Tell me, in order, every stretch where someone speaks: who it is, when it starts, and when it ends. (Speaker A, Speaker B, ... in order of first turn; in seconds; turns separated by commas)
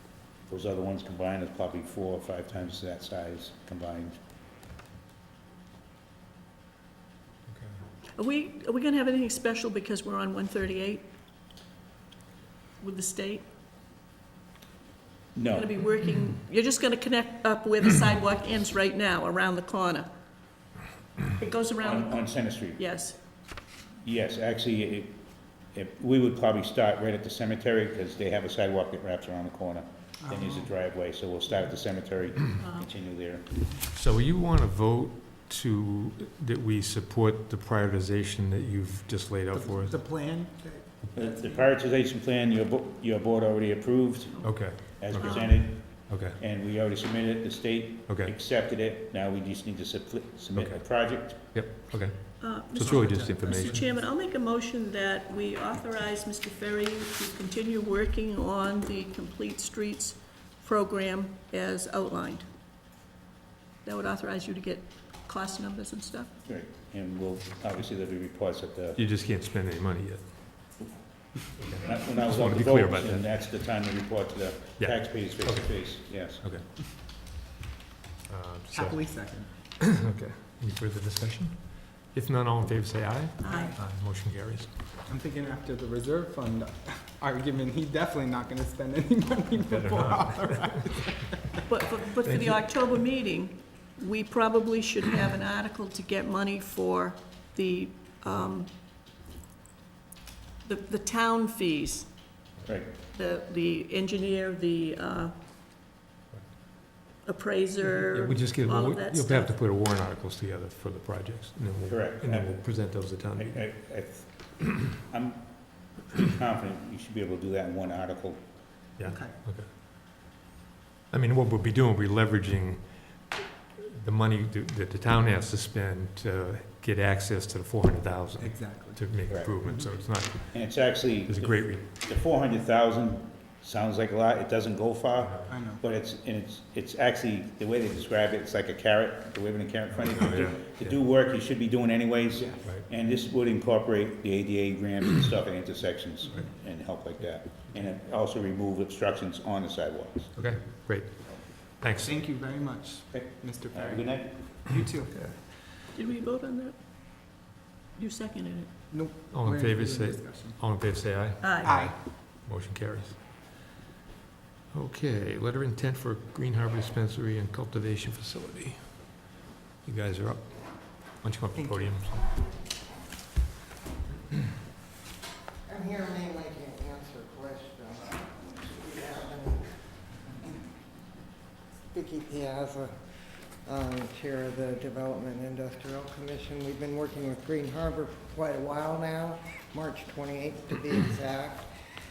Speaker A: 0.5-4.2, Speaker B: 7.5-7.7, Speaker C: 8.2-11.1, Speaker C: 12.8-13.4, Speaker A: 15.3-15.7, Speaker C: 15.5-20.1, Speaker C: 21.3-23.1, Speaker A: 21.8-22.8, Speaker A: 24.0-33.6, Speaker D: 30.2-30.7, Speaker C: 32.6-32.9, Speaker B: 33.9-40.0, Speaker D: 39.5-41.7, Speaker A: 41.1-51.5, Speaker B: 44.4-46.4, Speaker C: 45.2-45.5, Speaker B: 48.1-48.3, Speaker B: 50.5-53.8, Speaker C: 52.4-62.5, Speaker C: 63.8-66.3, Speaker A: 66.5-69.0, Speaker B: 69.0-70.4, Speaker B: 71.6-73.3, Speaker A: 71.8-76.4, Speaker B: 74.8-76.7, Speaker B: 78.3-84.9, Speaker D: 78.7-79.6, Speaker C: 83.4-83.8, Speaker D: 85.0-91.6, Speaker B: 89.6-90.8, Speaker C: 91.7-98.7, Speaker B: 92.2-93.0, Speaker C: 100.6-102.5, Speaker A: 102.7-102.9, Speaker C: 103.1-105.3, Speaker C: 107.2-109.5, Speaker B: 107.8-114.0, Speaker A: 111.8-118.7, Speaker B: 119.0-119.7, Speaker D: 119.0-119.4, Speaker B: 121.1-131.8, Speaker D: 128.4-129.9, Speaker A: 129.3-129.5, Speaker A: 130.5-150.4, Speaker D: 135.5-135.8, Speaker B: 140.0-141.0, Speaker D: 142.3-142.7, Speaker B: 150.3-152.1, Speaker D: 152.0-155.5, Speaker A: 153.1-154.5, Speaker B: 155.1-155.4, Speaker C: 155.9-156.8, Speaker C: 157.9-158.7, Speaker D: 158.9-160.6, Speaker B: 159.3-163.2, Speaker C: 161.4-161.7, Speaker D: 161.6-162.0, Speaker B: 164.7-169.3, Speaker B: 169.8-172.3, Speaker D: 171.5-172.1, Speaker E: 175.7-180.5, Speaker E: 181.9-183.0, Speaker E: 183.6-191.7